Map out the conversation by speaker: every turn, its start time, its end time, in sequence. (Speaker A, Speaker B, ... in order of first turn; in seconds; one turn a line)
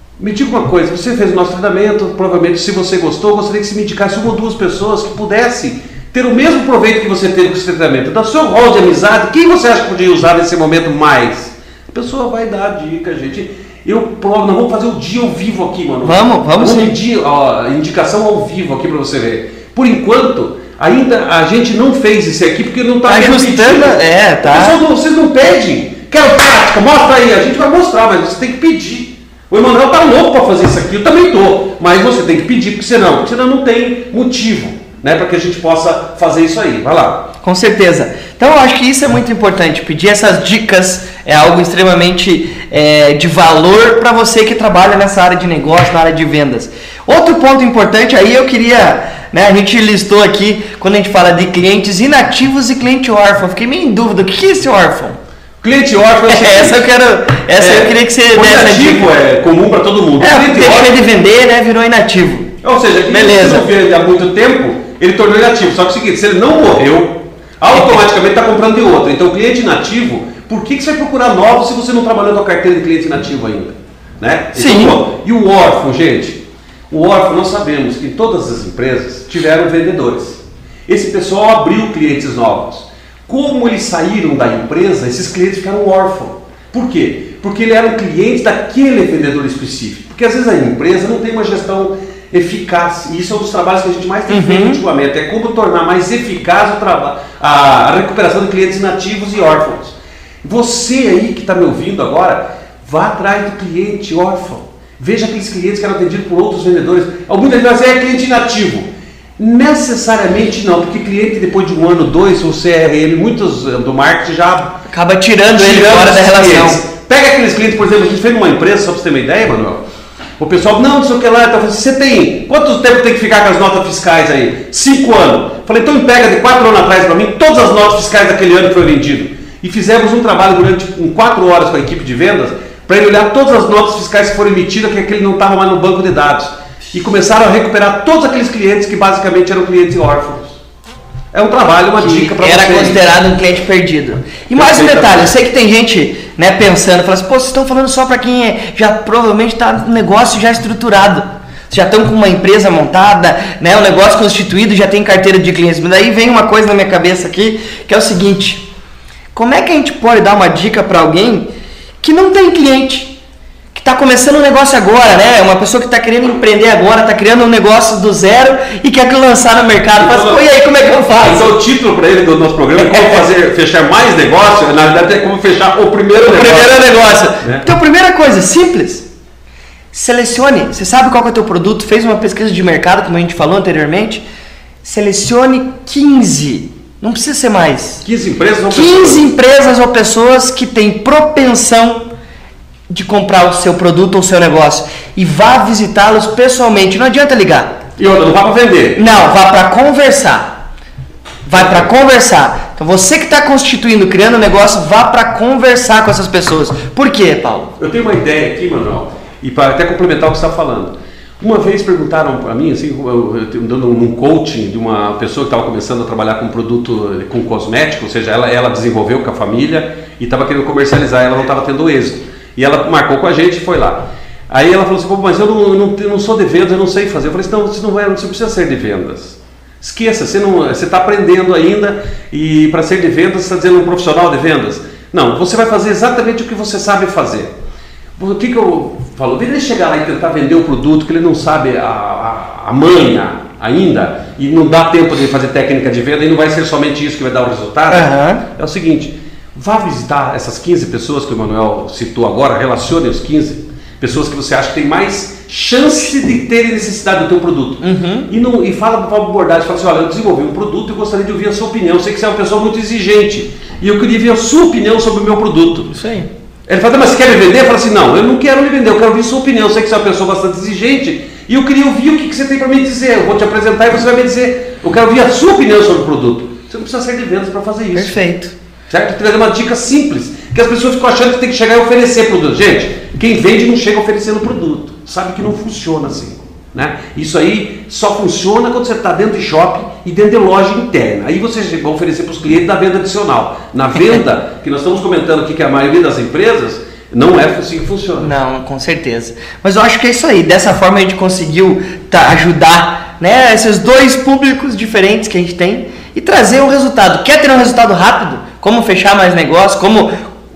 Speaker A: 0.2-37.3
Speaker B: 16.0-16.9
Speaker B: 23.1-24.8
Speaker B: 37.4-55.2
Speaker A: 55.6-56.8
Speaker B: 56.2-59.1
Speaker A: 57.6-60.9
Speaker B: 60.2-62.5
Speaker A: 62.6-114.8
Speaker B: 63.1-63.7
Speaker B: 74.5-75.0
Speaker B: 94.3-94.8
Speaker B: 114.9-116.8
Speaker A: 115.5-119.8
Speaker A: 120.4-140.6
Speaker A: 141.3-143.0
Speaker B: 142.0-158.7
Speaker A: 144.5-145.3
Speaker B: 159.3-161.5
Speaker B: 162.0-163.2
Speaker B: 163.7-171.5
Speaker A: 170.0-170.4
Speaker A: 171.2-176.8
Speaker B: 172.8-173.2
Speaker B: 176.1-179.1
Speaker B: 179.9-184.2
Speaker B: 184.8-188.0
Speaker A: 188.0-189.3
Speaker B: 188.7-192.1
Speaker B: 192.9-197.8
Speaker A: 198.0-199.0
Speaker B: 198.9-200.5
Speaker B: 201.4-207.7
Speaker A: 201.5-201.9
Speaker A: 207.8-237.5
Speaker A: 238.2-265.9
Speaker B: 247.9-248.4
Speaker B: 257.8-258.3
Speaker B: 265.9-266.3
Speaker A: 266.7-278.1
Speaker B: 277.9-278.5
Speaker A: 278.9-298.3
Speaker B: 298.2-310.1